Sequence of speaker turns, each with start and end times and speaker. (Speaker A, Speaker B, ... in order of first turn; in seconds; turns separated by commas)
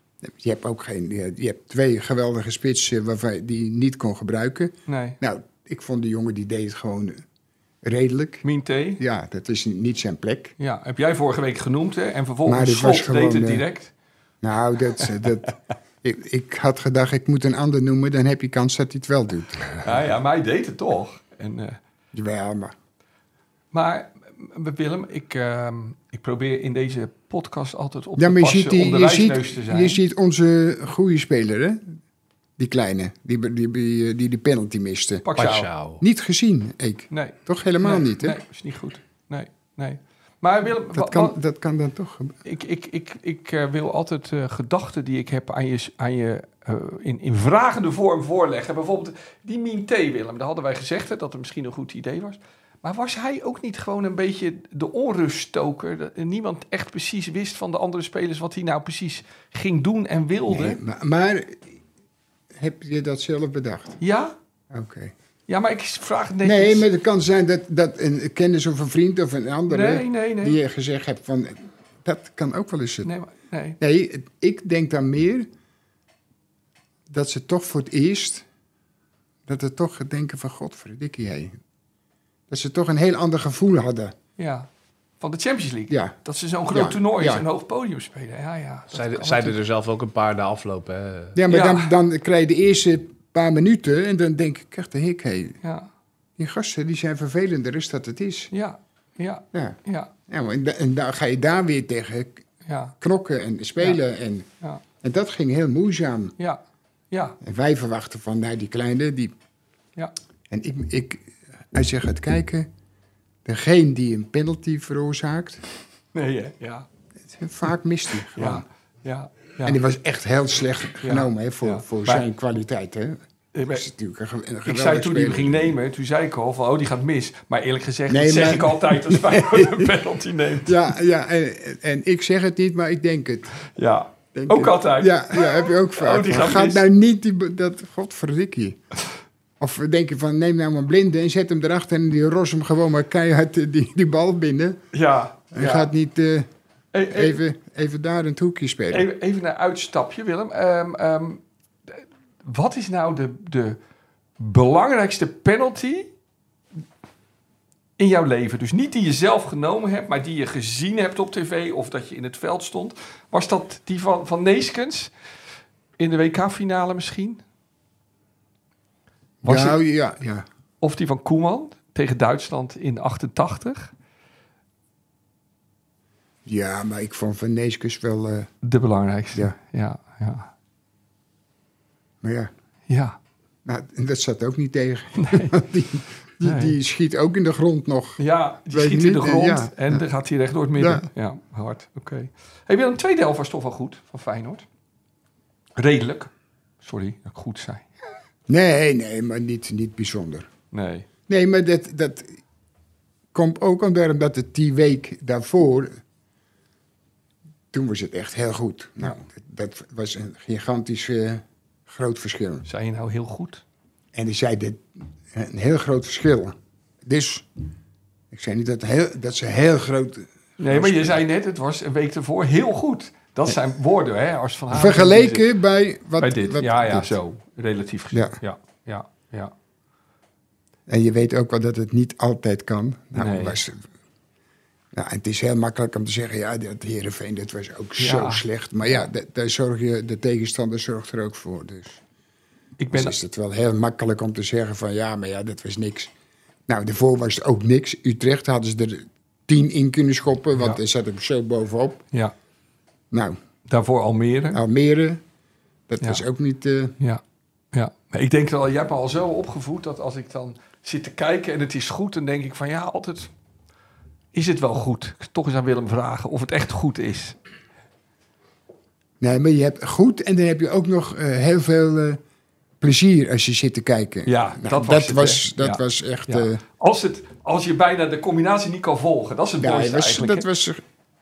Speaker A: 0.2-7.2, Speaker B: 4.9-5.2, Speaker A: 7.8-8.4, Speaker B: 8.4-9.0, Speaker A: 9.0-10.6, Speaker B: 10.6-13.9, Speaker A: 12.5-13.7, Speaker A: 14.4-19.9, Speaker B: 19.8-21.8, Speaker A: 22.1-22.7, Speaker B: 23.7-30.0, Speaker A: 28.2-31.9, Speaker A: 32.6-35.3, Speaker B: 35.2-35.7, Speaker C: 35.4-36.0, Speaker A: 36.0-38.4, Speaker B: 37.1-41.4, Speaker A: 40.9-42.4, Speaker B: 42.5-60.8, Speaker A: 60.5-61.8, Speaker A: 62.5-64.0, Speaker B: 64.0-64.3, Speaker A: 64.7-65.1, Speaker B: 65.5-66.9, Speaker A: 66.4-73.1, Speaker B: 69.7-70.6, Speaker B: 73.0-73.8, Speaker A: 73.8-75.5, Speaker A: 77.1-78.5, Speaker A: 79.5-81.5, Speaker A: 82.5-84.2, Speaker B: 84.4-84.7, Speaker B: 85.2-89.6, Speaker A: 85.9-86.2, Speaker A: 86.7-87.4, Speaker C: 88.9-91.4, Speaker A: 91.3-95.6, Speaker B: 91.5-91.9, Speaker B: 95.6-95.9, Speaker A: 96.4-98.5, Speaker B: 98.5-100.1, Speaker A: 100.3-102.5, Speaker B: 102.7-103.0, Speaker A: 103.0-104.5, Speaker A: 105.0-106.3, Speaker B: 106.4-107.4, Speaker A: 107.4-109.3, Speaker A: 110.5-112.7, Speaker A: 113.5-115.6, Speaker B: 116.1-116.9, Speaker A: 117.3-118.6, Speaker B: 118.3-119.8, Speaker A: 119.6-123.2, Speaker B: 121.0-122.2, Speaker B: 123.5-123.9, Speaker A: 123.7-125.7, Speaker B: 124.7-130.8, Speaker A: 128.1-130.0, Speaker A: 130.6-133.6, Speaker B: 133.7-136.8, Speaker A: 134.3-138.8, Speaker A: 139.6-144.8, Speaker B: 144.9-145.9, Speaker A: 145.5-146.5, Speaker B: 146.9-147.4, Speaker A: 147.1-149.1, Speaker B: 148.9-153.8, Speaker B: 154.4-156.1, Speaker B: 158.0-165.1, Speaker B: 166.0-167.4, Speaker A: 169.4-170.4, Speaker B: 169.4-169.8, Speaker B: 170.8-173.9, Speaker A: 176.4-178.5, Speaker B: 178.6-180.5, Speaker A: 182.2-182.5, Speaker B: 182.9-183.2, Speaker A: 183.7-190.1, Speaker B: 185.2-185.6, Speaker B: 186.4-186.8, Speaker B: 188.2-194.7, Speaker A: 190.8-191.1, Speaker B: 195.8-196.3, Speaker B: 196.8-197.9, Speaker A: 198.5-200.5, Speaker B: 200.7-201.1, Speaker A: 201.3-202.4, Speaker A: 203.3-206.0, Speaker A: 207.7-212.7, Speaker B: 212.7-213.6, Speaker A: 214.1-217.5, Speaker A: 218.3-221.2, Speaker B: 220.6-225.5, Speaker A: 224.7-227.2, Speaker B: 226.2-229.5, Speaker A: 230.9-233.9, Speaker B: 233.2-233.6, Speaker A: 234.9-242.0, Speaker B: 238.0-239.1, Speaker B: 242.8-243.2, Speaker A: 242.9-246.1, Speaker A: 246.7-252.1, Speaker A: 253.1-253.4, Speaker B: 253.7-254.6, Speaker A: 254.5-255.2, Speaker A: 255.9-257.0, Speaker B: 257.7-263.3, Speaker B: 264.3-267.4, Speaker A: 269.2-272.2, Speaker A: 272.8-276.6, Speaker B: 274.3-280.5, Speaker A: 279.6-280.8